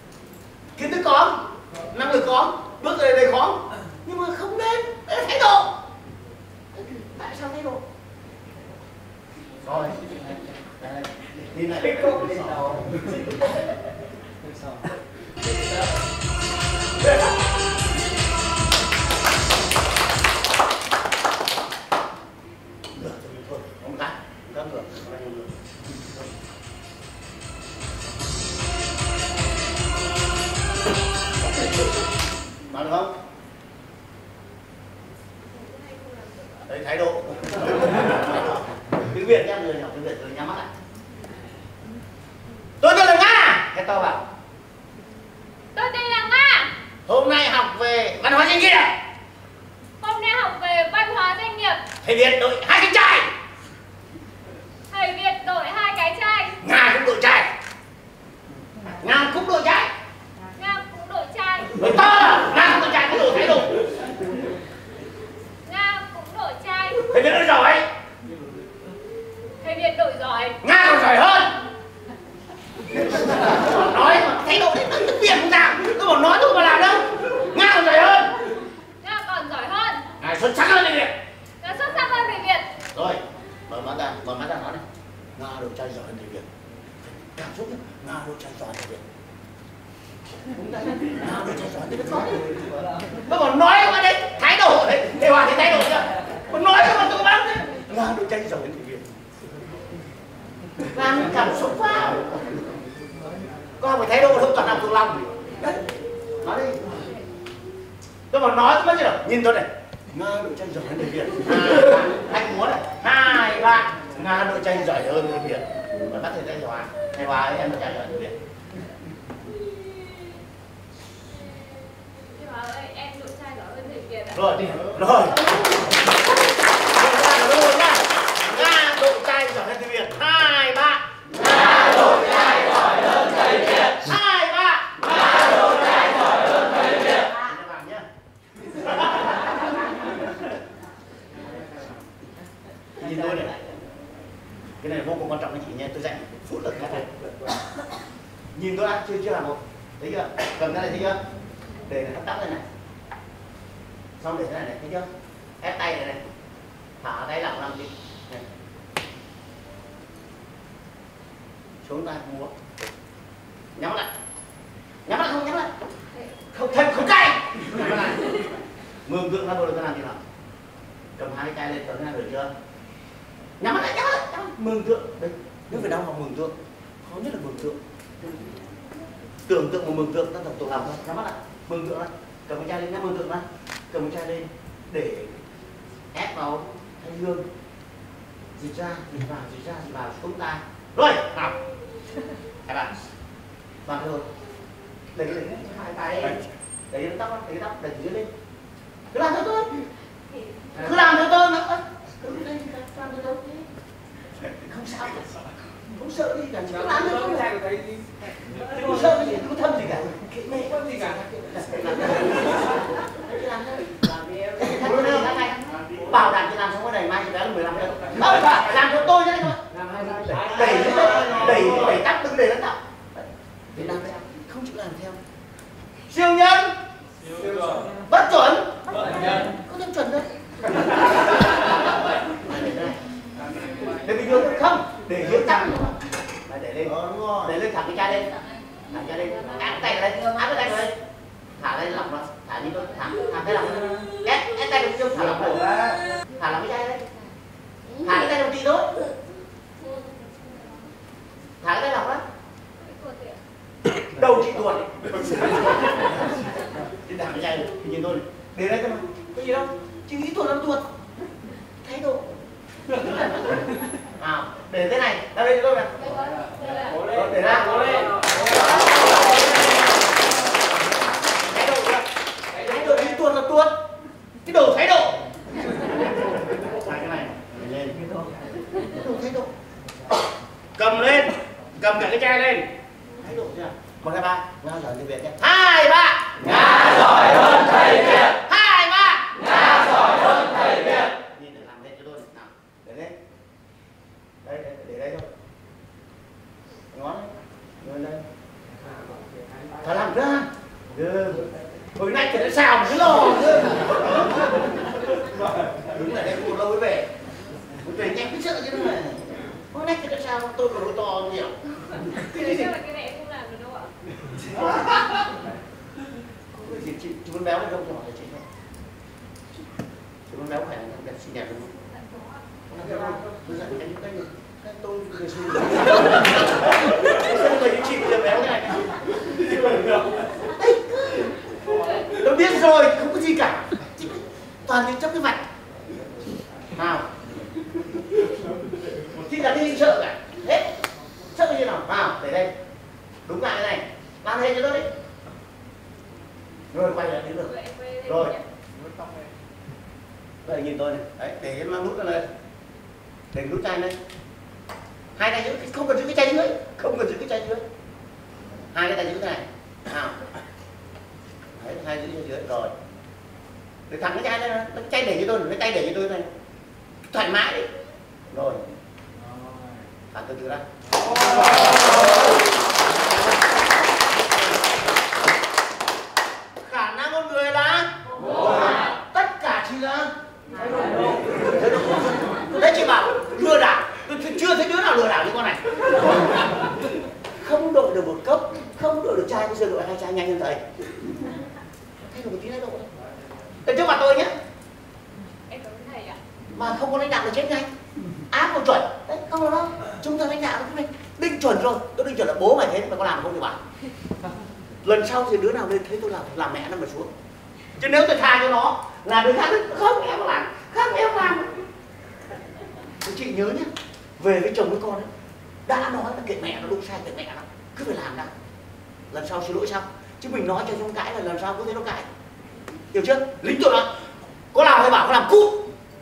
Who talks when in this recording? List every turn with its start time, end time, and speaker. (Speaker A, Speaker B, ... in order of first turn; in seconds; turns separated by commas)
Speaker A: 0.8-5.8, Speaker A: 6.8-7.8, Speaker A: 9.6-13.8, Speaker A: 22.9-25.6, Speaker A: 31.4-31.9, Speaker A: 32.7-33.1, Speaker B: 35.5-36.6, Speaker A: 36.7-40.7, Speaker A: 42.8-44.2, Speaker B: 45.7-46.7, Speaker A: 47.1-49.0, Speaker B: 50.0-51.8, Speaker A: 52.0-53.3, Speaker B: 54.9-56.6, Speaker A: 56.6-57.5, Speaker A: 59.0-59.9, Speaker B: 60.5-61.8, Speaker A: 61.8-63.9, Speaker B: 65.6-67.1, Speaker A: 66.9-67.9, Speaker B: 69.6-70.6, Speaker A: 70.6-71.5, Speaker A: 72.9-78.4, Speaker B: 79.0-80.1, Speaker A: 80.2-81.2, Speaker B: 81.6-82.7, Speaker A: 82.9-84.8, Speaker A: 85.4-86.5, Speaker A: 87.0-89.0, Speaker A: 90.5-99.0, Speaker A: 100.9-102.4, Speaker A: 103.8-105.8, Speaker A: 106.4-107.0, Speaker A: 108.3-118.3, Speaker B: 122.1-124.5, Speaker A: 124.3-125.9, Speaker A: 126.8-138.1, Speaker A: 138.7-140.2, Speaker A: 143.0-143.9, Speaker A: 144.8-147.3, Speaker A: 148.6-151.2, Speaker A: 151.9-152.6, Speaker A: 154.2-155.1, Speaker A: 155.6-156.2, Speaker A: 157.0-158.4, Speaker A: 161.8-162.8, Speaker A: 163.8-164.1, Speaker A: 165.1-165.7, Speaker A: 166.5-168.5, Speaker A: 169.1-170.2, Speaker A: 171.2-172.5, Speaker A: 173.6-178.5, Speaker A: 179.5-185.4, Speaker A: 186.1-187.4, Speaker A: 188.6-191.6, Speaker A: 192.7-192.9, Speaker A: 193.9-194.3, Speaker A: 195.2-198.3, Speaker A: 199.1-199.8, Speaker B: 200.3-200.8, Speaker A: 200.8-203.7, Speaker A: 204.4-205.4, Speaker A: 205.9-207.8, Speaker A: 208.5-225.2, Speaker A: 226.1-226.8, Speaker A: 227.6-233.0, Speaker A: 233.9-238.4, Speaker A: 238.9-240.9, Speaker A: 241.6-245.8, Speaker A: 246.4-247.1, Speaker A: 248.0-249.0, Speaker B: 249.8-250.6, Speaker A: 251.6-252.2, Speaker B: 252.8-253.4, Speaker A: 254.1-260.9, Speaker A: 261.8-262.3, Speaker A: 262.9-263.7, Speaker A: 264.2-265.9, Speaker B: 266.6-266.9, Speaker A: 266.9-269.2, Speaker A: 271.4-273.7, Speaker A: 274.4-275.2, Speaker A: 275.9-278.1, Speaker A: 278.9-279.5, Speaker A: 280.8-282.7, Speaker A: 283.2-293.2, Speaker A: 294.4-295.3, Speaker A: 296.9-298.2, Speaker A: 299.8-307.1, Speaker A: 307.8-312.7, Speaker B: 312.3-313.9, Speaker A: 314.6-315.2, Speaker A: 316.5-318.4, Speaker A: 320.3-321.7, Speaker A: 322.7-335.4, Speaker A: 336.8-337.1, Speaker A: 339.0-340.7, Speaker A: 341.3-342.5, Speaker A: 343.3-344.9, Speaker A: 346.7-347.5, Speaker B: 347.4-348.5, Speaker A: 348.1-348.3, Speaker A: 350.4-352.2, Speaker A: 353.3-354.0, Speaker A: 355.2-357.6, Speaker A: 358.7-360.3, Speaker A: 361.6-362.7, Speaker A: 363.9-366.3, Speaker A: 367.1-367.7, Speaker A: 368.3-368.7, Speaker A: 370.1-370.6, Speaker A: 371.2-372.0, Speaker A: 376.6-380.1, Speaker A: 380.9-386.4, Speaker A: 387.4-390.6, Speaker A: 392.0-392.9, Speaker A: 393.7-394.3, Speaker B: 395.5-396.2, Speaker A: 396.5-397.7, Speaker A: 398.3-403.6, Speaker A: 404.8-407.1, Speaker A: 407.8-411.6, Speaker A: 413.0-415.1, Speaker A: 415.7-418.3, Speaker A: 419.1-422.1, Speaker A: 422.9-423.9, Speaker A: 424.5-425.7